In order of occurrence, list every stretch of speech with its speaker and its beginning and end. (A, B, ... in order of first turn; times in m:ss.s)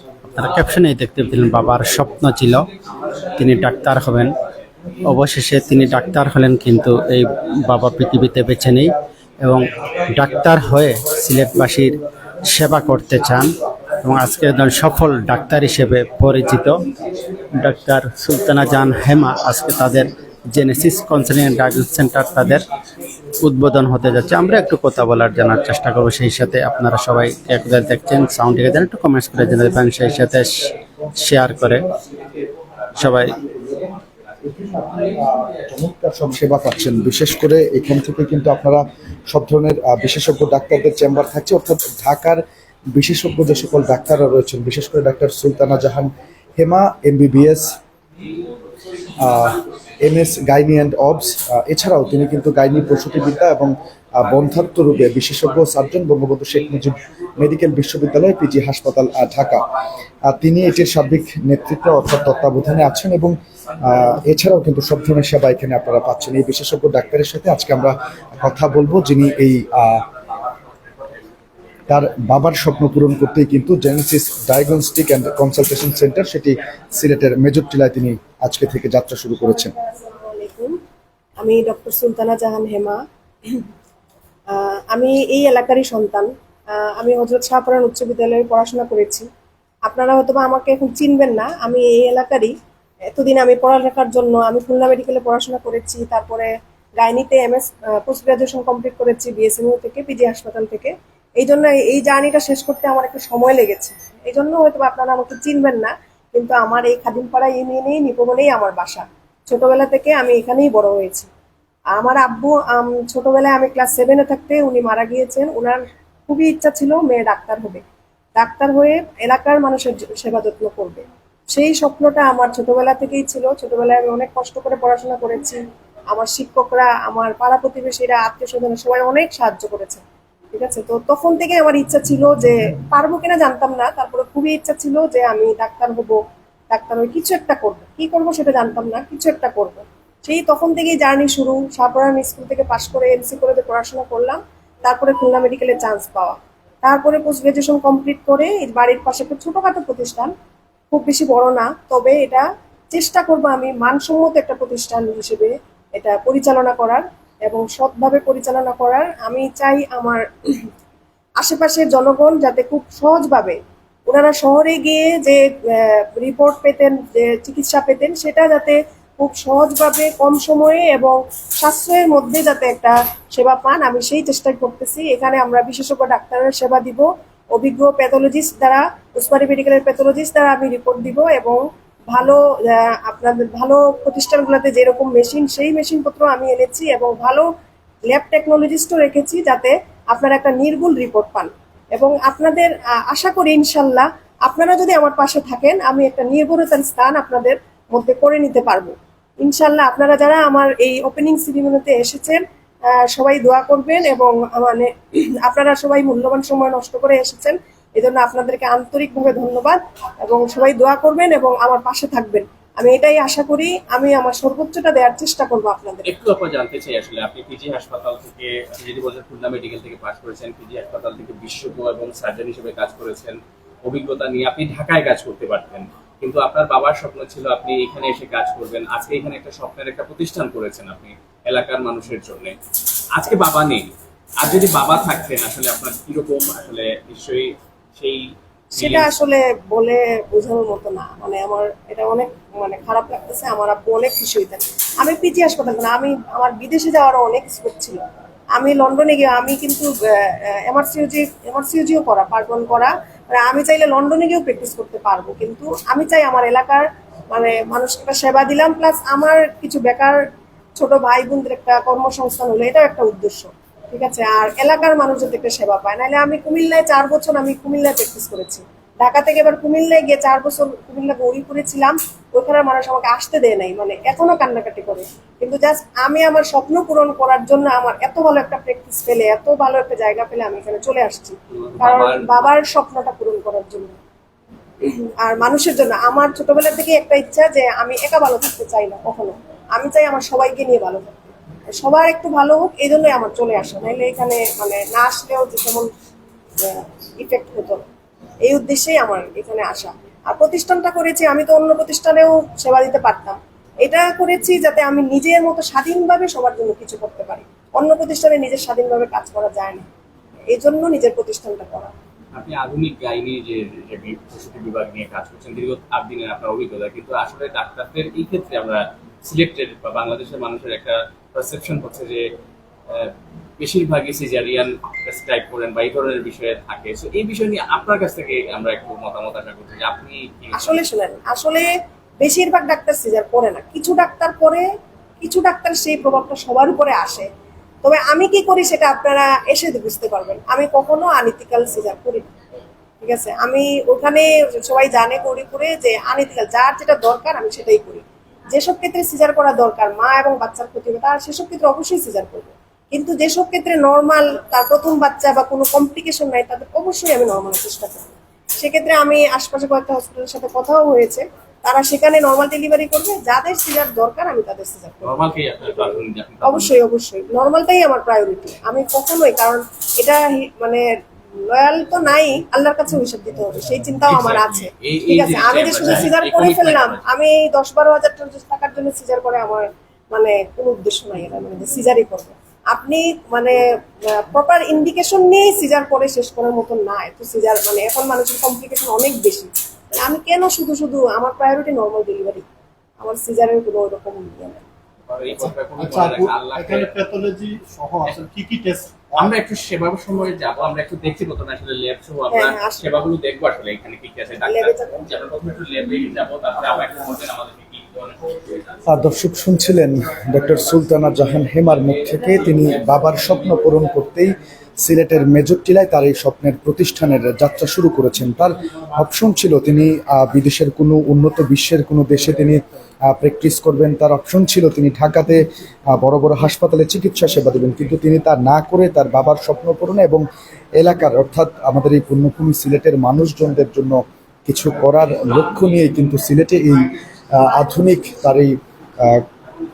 0:00.4-0:02.6 A
0:03.4-0:04.3 A
0:05.1-0:08.9 A
0:09.4-0:12.0 A
0:12.5-0:13.5 A
0:14.0-0:16.8 A
0:17.6-0:22.6 A
0:23.4-0:30.7 A
0:31.2-0:31.8 A
0:33.0-0:33.3 A
0:34.5-0:42.4 B
0:42.9-0:47.7 B
0:49.2-0:59.7 B
1:00.3-1:10.0 B
1:11.9-1:19.7 B
1:19.9-1:20.7 C
1:21.4-1:23.6 C
1:24.5-1:29.3 C
1:29.9-1:32.5 C
1:33.2-1:51.3 C
1:52.0-1:57.8 C
1:58.4-2:05.6 C
2:06.1-2:10.0 C
2:10.5-2:16.2 C
2:16.7-2:30.3 C
2:30.9-2:40.7 C
2:41.4-2:43.6 C
2:44.1-3:07.5 C
3:08.1-3:22.4 C
3:23.1-3:36.1 C
3:36.1-3:52.6 D
3:53.2-3:53.9 D
3:54.4-3:59.1 D
3:58.7-4:08.0 C
4:08.6-4:20.2 C
4:20.8-4:44.0 C
4:41.8-4:42.4 D
4:44.8-4:55.9 C
4:56.6-4:57.8 C
4:58.4-5:09.9 C
5:10.5-5:11.9 C
5:12.4-5:22.2 D
5:23.6-5:30.8 D
5:30.5-5:31.7 C
5:32.2-5:34.6 C
5:35.2-5:37.3 C
5:37.8-5:42.3 C
5:43.0-6:05.2 C
6:05.1-6:06.7 D
6:06.4-6:10.9 C
6:11.5-6:32.4 C
6:14.1-6:17.0 D
6:33.0-6:34.6 C
6:35.1-6:37.1 D
6:35.8-6:38.7 E
6:39.1-6:48.7 D
6:42.3-6:42.9 C
6:44.4-6:45.0 C
6:48.9-7:05.4 B
7:06.0-7:10.3 B
7:10.8-7:19.2 B